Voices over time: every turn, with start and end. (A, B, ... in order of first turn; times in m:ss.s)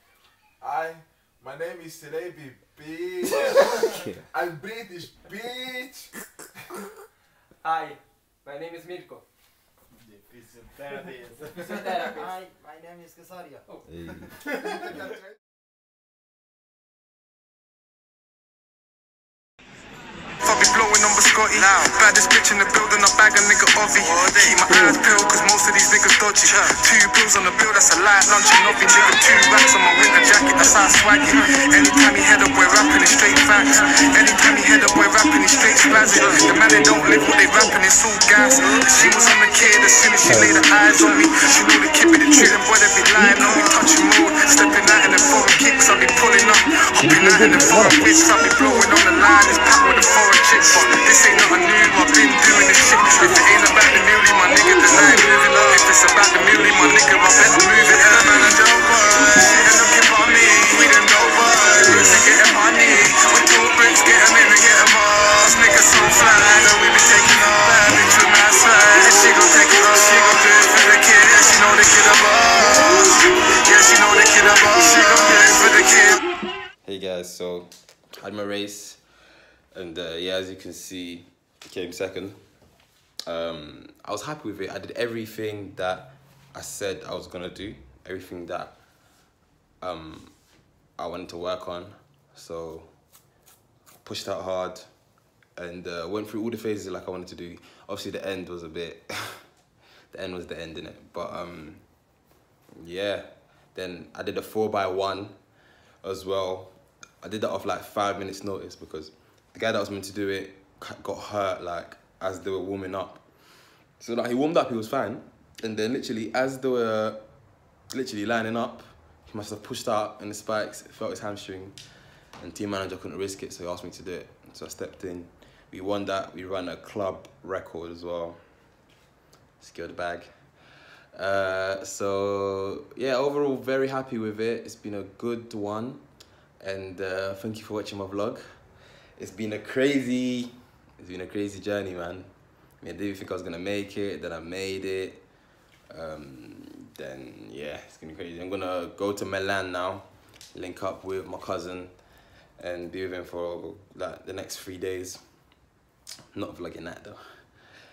0:00.6-0:06.1 A
0:07.6-0:09.2 B
0:10.0-0:13.6 C
0:11.7-0:12.1 B
0:13.9-0:14.4 D
0:20.4-1:16.2 E
0:40.3-0:40.6 D
0:47.0-0:48.1 D
1:01.8-1:02.2 D
1:07.9-1:08.2 D
1:16.8-1:19.0 D
1:19.7-1:22.4 D
1:23.3-1:28.8 D
1:29.8-1:30.4 D
1:31.0-1:32.9 D
1:34.0-1:34.8 D
1:35.6-1:39.4 D
1:40.1-1:41.8 D
1:42.8-1:45.4 D
1:46.0-1:53.3 D
1:54.0-1:57.2 D
1:57.9-2:01.8 D
2:02.4-2:08.4 D
2:09.6-2:10.3 D
2:11.1-2:16.0 D
2:16.6-2:18.4 D
2:19.2-2:25.2 D
2:25.9-2:32.0 D
2:32.6-2:35.2 D
2:36.3-2:37.6 D